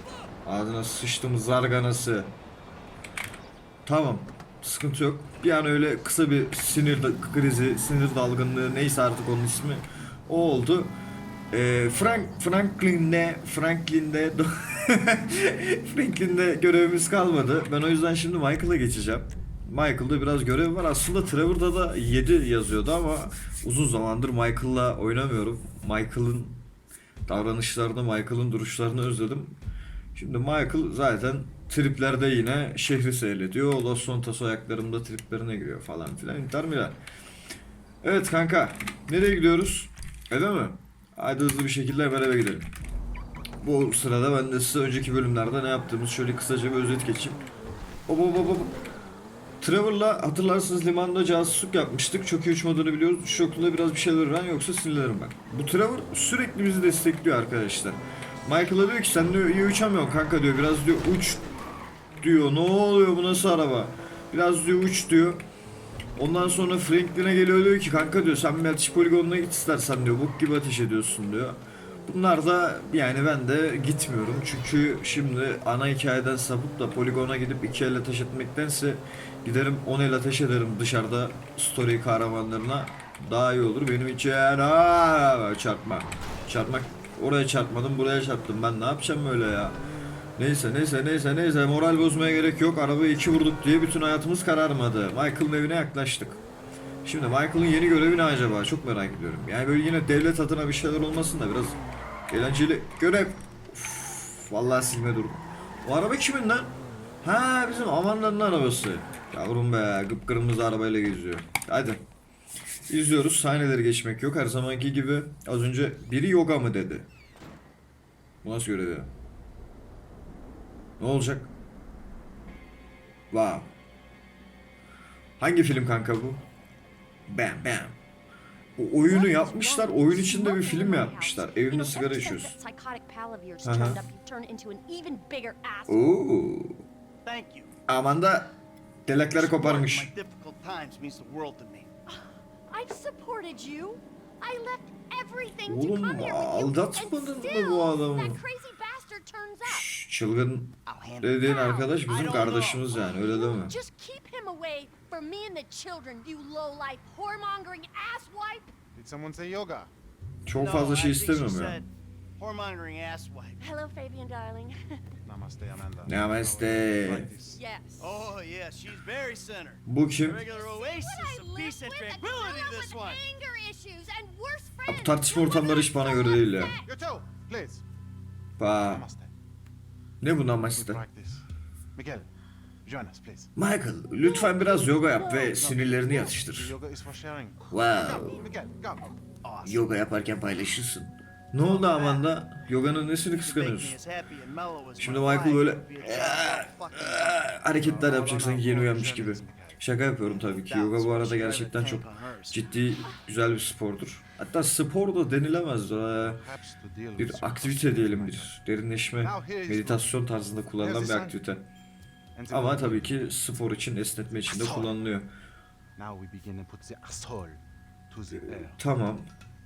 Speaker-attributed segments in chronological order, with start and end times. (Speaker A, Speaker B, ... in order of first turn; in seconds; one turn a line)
Speaker A: 0.4-2.3
Speaker A: 3.9-10.9
Speaker A: 11.5-26.6
Speaker A: 27.2-29.6
Speaker A: 30.1-37.0
Speaker A: 38.0-42.7
Speaker A: 43.6-47.4
Speaker A: 48.1-48.8
Speaker A: 49.6-61.4
Speaker A: 62.2-65.4
Speaker A: 66.2-89.8
Speaker A: 90.4-96.4
Speaker A: 97.0-101.8
Speaker A: 102.3-112.0
Speaker A: 112.9-117.1
Speaker A: 118.4-119.1
Speaker A: 121.0-121.5
Speaker A: 123.3-123.7
Speaker A: 125.4-126.4
Speaker A: 127.3-128.0
Speaker A: 128.8-132.6
Speaker B: 129.1-136.2
Speaker A: 133.6-134.0
Speaker A: 135.9-136.8
Speaker C: 137.2-137.7
Speaker A: 137.9-138.5
Speaker A: 139.1-140.1
Speaker C: 139.3-141.9
Speaker B: 142.1-149.9
Speaker A: 145.7-148.4
Speaker A: 149.6-153.8
Speaker C: 150.8-153.2
Speaker B: 151.4-152.0
Speaker B: 153.0-158.7
Speaker D: 158.9-159.9
Speaker A: 160.4-161.8
Speaker C: 160.5-163.6
Speaker B: 163.6-165.0
Speaker D: 165.2-167.6
Speaker A: 166.0-167.3
Speaker B: 167.5-168.2
Speaker C: 168.0-173.2
Speaker A: 169.8-170.5
Speaker B: 170.5-176.8
Speaker A: 174.8-176.7
Speaker D: 176.8-177.8
Speaker A: 178.6-179.1
Speaker D: 178.7-179.3
Speaker A: 180.2-181.0
Speaker D: 180.7-182.3
Speaker D: 182.8-183.5
Speaker A: 183.6-186.7
Speaker B: 184.2-185.6
Speaker D: 185.5-189.1
Speaker A: 187.7-188.4
Speaker C: 189.4-189.9
Speaker A: 189.6-193.9
Speaker C: 191.6-192.3
Speaker C: 193.4-197.4
Speaker A: 195.0-206.4
Speaker D: 197.7-199.8
Speaker C: 200.2-202.7
Speaker D: 206.2-208.5
Speaker A: 207.2-211.6
Speaker D: 209.2-210.1
Speaker D: 210.8-211.4
Speaker D: 212.3-213.2
Speaker A: 212.5-215.3
Speaker D: 214.5-214.9
Speaker D: 215.9-218.8
Speaker A: 218.4-219.3